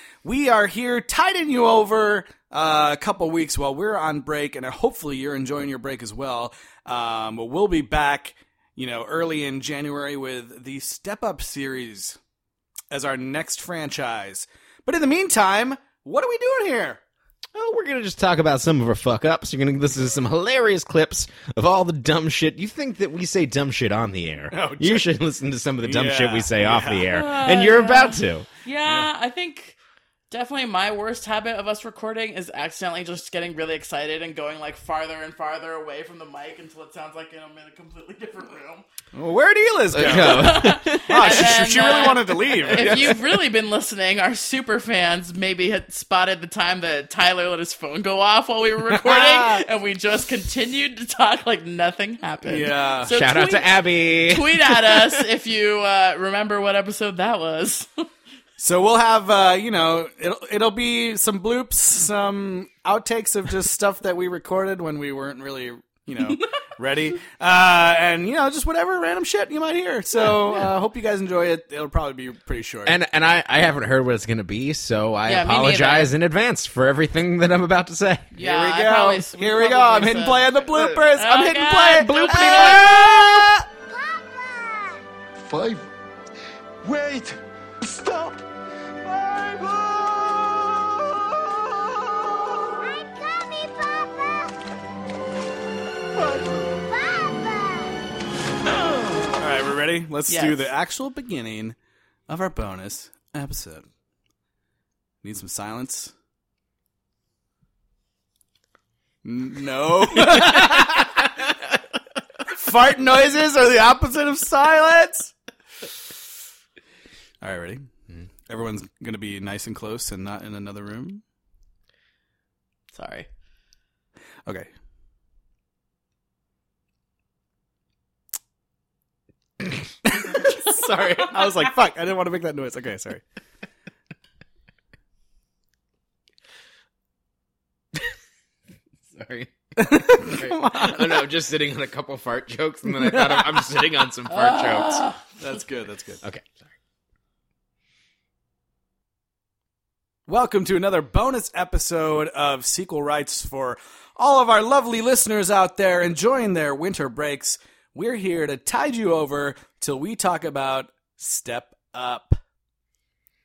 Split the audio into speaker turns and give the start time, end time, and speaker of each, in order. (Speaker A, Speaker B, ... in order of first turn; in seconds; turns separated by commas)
Speaker A: 0.2-12.2, Speaker A: 12.9-17.0, Speaker B: 17.5-28.5, Speaker A: 24.5-25.1, Speaker A: 25.8-27.1, Speaker C: 27.1-29.8, Speaker A: 28.8-29.1, Speaker C: 30.3-38.8, Speaker A: 39.1-43.1, Speaker B: 39.9-41.8, Speaker C: 40.0-58.0, Speaker B: 42.6-43.4, Speaker B: 49.1-49.5, Speaker A: 49.1-49.6, Speaker A: 52.5-53.1, Speaker B: 53.1-55.3, Speaker A: 58.6-73.0, Speaker B: 72.8-78.3, Speaker C: 75.2-76.1, Speaker C: 78.3-83.5, Speaker A: 78.3-82.9, Speaker B: 82.0-83.6, Speaker D: 83.8-85.0, Speaker E: 85.5-85.8, Speaker E: 86.8-87.3, Speaker E: 87.9-88.3, Speaker E: 89.1-90.4, Speaker D: 92.8-94.5, Speaker D: 96.9-98.0, Speaker C: 98.9-99.2, Speaker A: 99.4-101.8, Speaker C: 100.3-100.7, Speaker A: 102.3-103.9, Speaker A: 105.2-106.1, Speaker A: 109.2-111.2, Speaker A: 112.5-115.3, Speaker A: 117.4-117.9, Speaker A: 118.5-121.2, Speaker C: 122.9-123.3, Speaker A: 130.1-133.2, Speaker C: 131.0-131.2, Speaker B: 139.1-145.0, Speaker A: 139.8-141.0, Speaker A: 143.0-143.6, Speaker C: 144.3-145.2, Speaker A: 145.4-146.2, Speaker A: 150.3-162.4